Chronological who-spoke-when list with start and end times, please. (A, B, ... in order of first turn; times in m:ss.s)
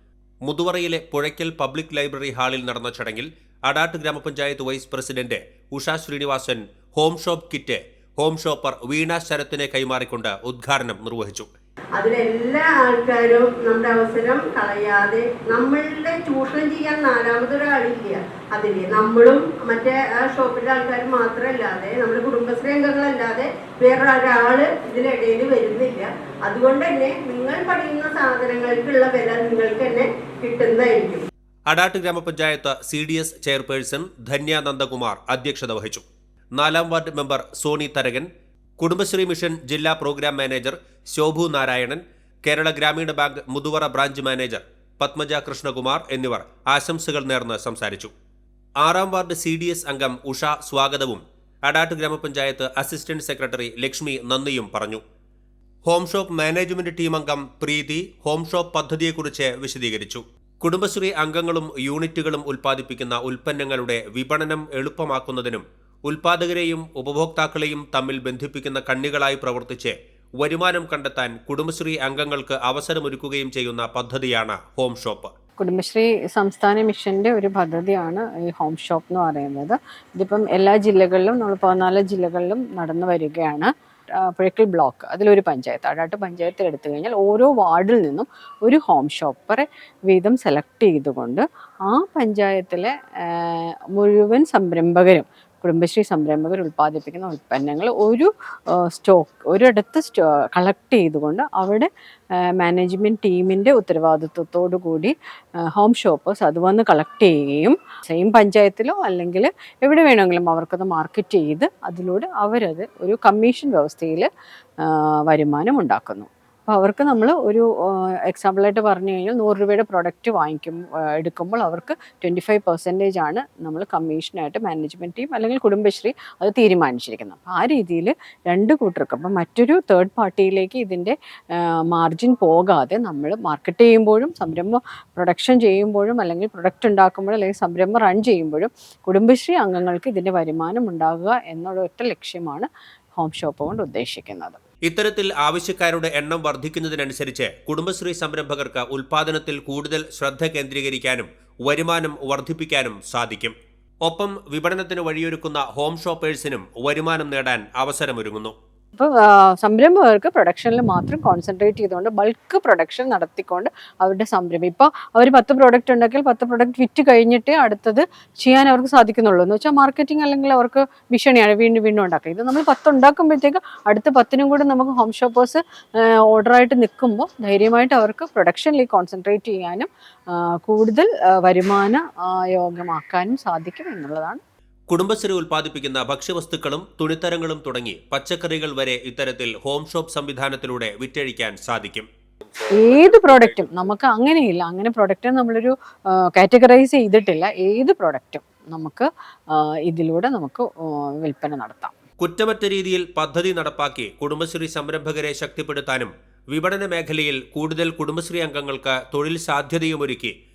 0:00.4-0:11.5 A
0:12.0-0:31.2 B
0:31.7-0:36.0 A
0:36.6-0:38.3 A
0:38.8-0:48.1 A
0:48.8-0:55.0 A
0:55.8-1:15.3 A
1:15.6-1:45.1 C
1:45.6-1:54.3 C
1:54.8-2:24.6 C
2:24.9-2:38.6 A
2:39.0-3:04.4 C
3:04.9-3:12.1 A
3:12.8-3:21.9 C
3:22.2-3:30.4 A